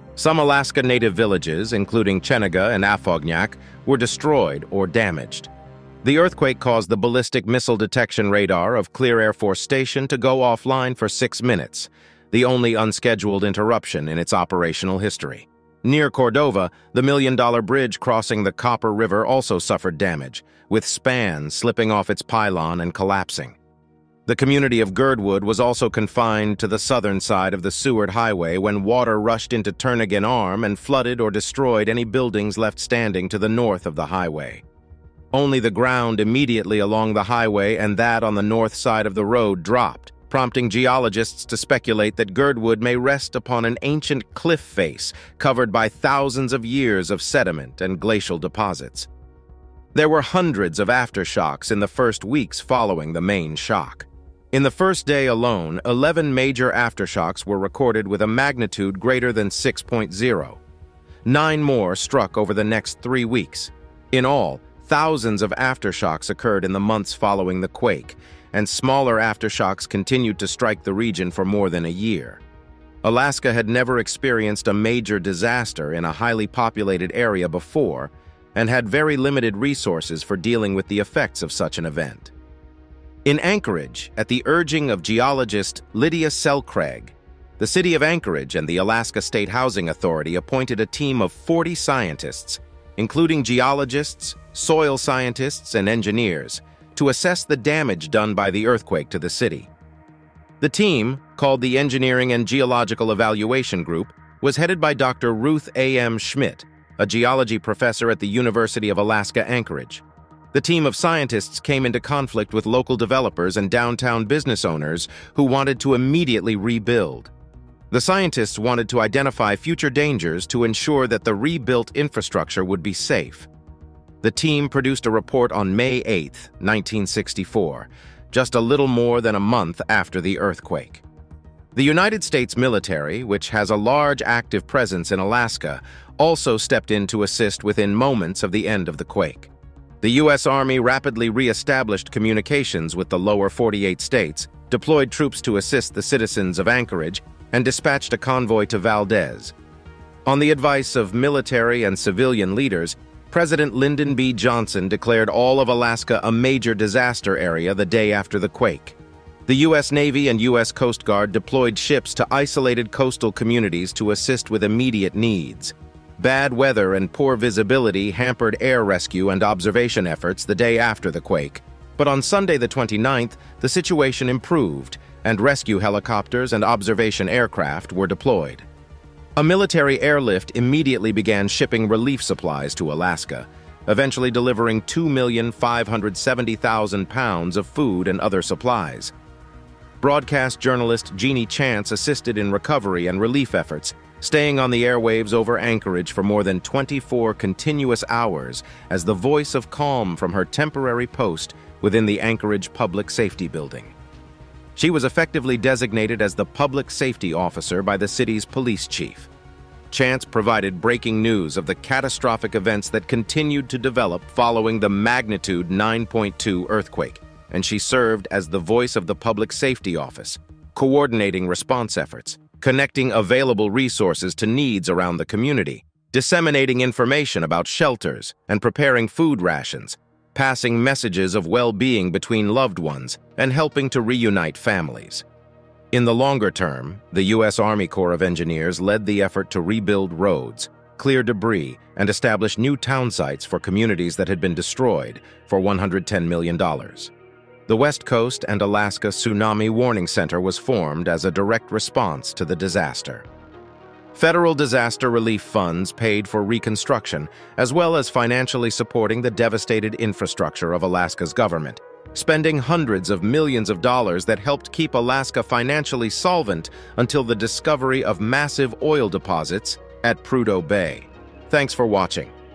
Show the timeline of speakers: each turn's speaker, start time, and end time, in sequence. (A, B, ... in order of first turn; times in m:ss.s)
0:00.2-0:05.5 A
0:06.0-0:23.6 A
0:24.3-0:34.6 A
0:35.3-0:49.1 A
0:49.9-1:00.6 A
1:01.2-1:12.4 A
1:13.0-1:22.3 A
1:23.2-1:39.7 A
1:40.6-1:57.3 A
1:57.9-2:03.5 A
2:04.2-2:11.0 A
2:11.7-2:19.5 A
2:20.0-2:29.5 A
2:30.2-2:58.6 A
2:59.4-3:09.1 A
3:10.0-3:23.9 A
3:24.8-3:29.3 A
3:29.9-3:55.2 A
3:55.9-4:07.1 A
4:07.7-4:13.2 A
4:14.1-4:32.3 A